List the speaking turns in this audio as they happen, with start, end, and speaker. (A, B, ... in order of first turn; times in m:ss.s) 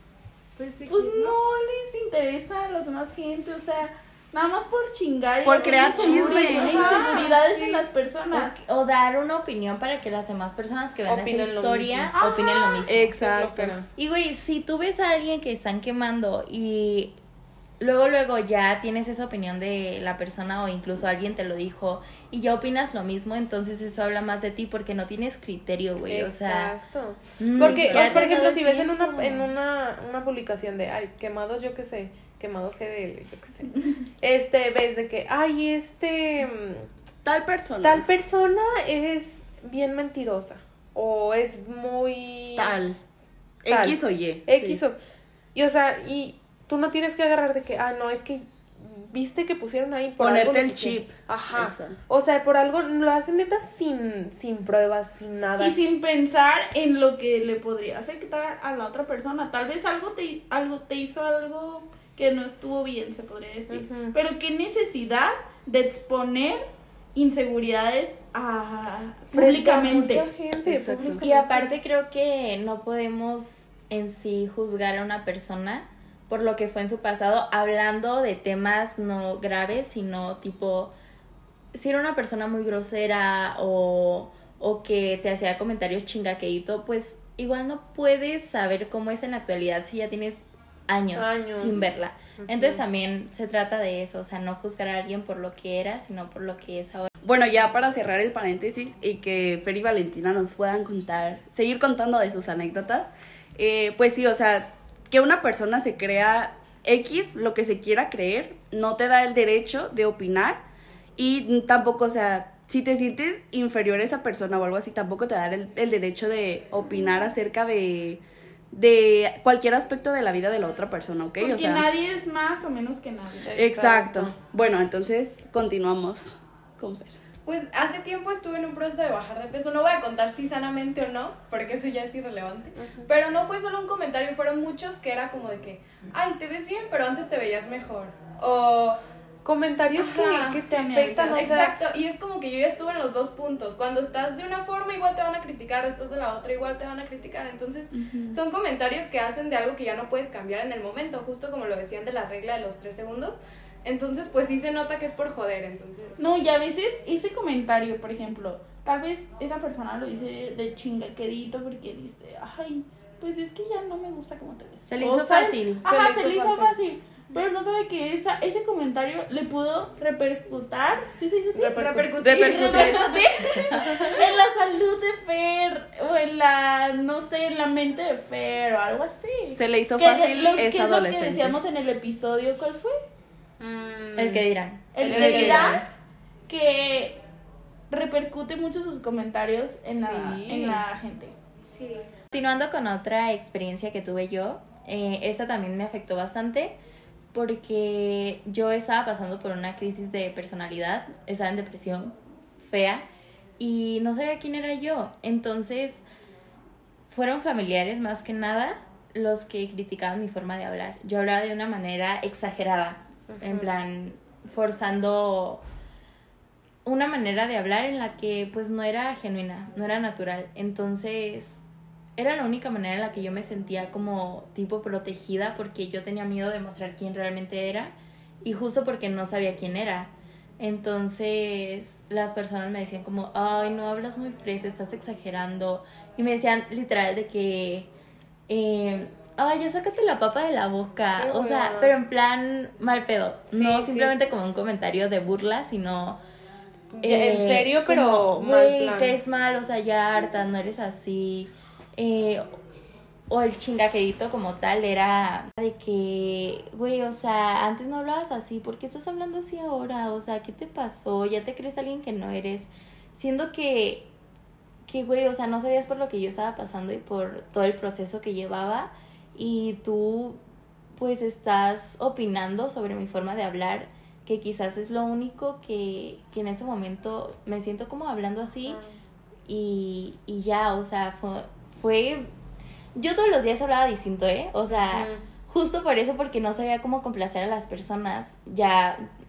0:00.6-0:01.4 A
0:00.9-0:08.6 B
0:05.4-0:07.2 C
0:05.6-0:07.9 A
0:08.3-0:13.2 D
0:11.1-0:12.1 E
0:12.2-0:12.8 B
0:12.9-0:13.8 C
0:12.9-0:13.9 E
0:14.0-0:17.2 D
0:17.8-0:26.8 D
0:26.1-0:36.9 E
0:27.4-0:29.5 D
0:27.6-0:28.5 C
0:37.2-0:38.0 C
0:37.8-0:42.8 E
0:42.6-0:43.0 C
0:43.6-0:44.8 C
0:43.7-0:45.0 E
0:45.6-0:55.8 E
0:50.2-0:52.0 C
0:55.6-1:10.3 B
1:03.7-1:04.2 E
1:09.3-1:11.8 E
1:10.6-1:11.2 C
1:11.2-1:21.0 D
1:21.7-1:37.1 D
1:31.2-1:32.8 E
1:37.2-1:50.6 C
1:51.2-2:01.9 C
2:01.4-2:03.5 B
2:03.5-2:04.3 E
2:03.6-2:07.2 C
2:07.4-2:19.0 A
2:12.8-2:13.1 E
2:19.4-2:21.8 E
2:20.0-2:21.6 B
2:21.3-2:36.3 A
2:27.9-2:28.4 C
2:36.2-3:03.0 B
2:44.9-2:45.9 D
2:45.8-2:46.8 E
2:51.6-2:54.3 A
2:51.6-2:53.0 C
2:59.5-3:01.6 C
3:03.6-3:04.5 E
3:04.2-3:05.8 D
3:04.9-3:05.8 B
3:05.0-3:05.8 E
3:06.5-3:07.2 B
3:07.9-3:11.3 B
3:09.9-3:10.8 E
3:11.6-3:12.1 A
3:12.3-3:16.8 D
3:17.3-3:23.1 D
3:23.6-3:26.0 D
3:27.1-3:35.6 D
3:33.3-3:33.7 E
3:36.8-3:41.6 D
3:42.2-3:57.9 D
3:58.5-4:06.2 D
4:01.2-4:01.9 E
4:03.5-4:04.1 E
4:06.9-4:09.2 E
4:07.0-4:12.6 D
4:13.3-4:24.1 D
4:24.9-4:30.4 D
4:31.0-4:38.8 D
4:38.7-4:38.9 E
4:39.5-4:42.3 D
4:43.0-4:49.1 D
4:44.9-4:45.2 E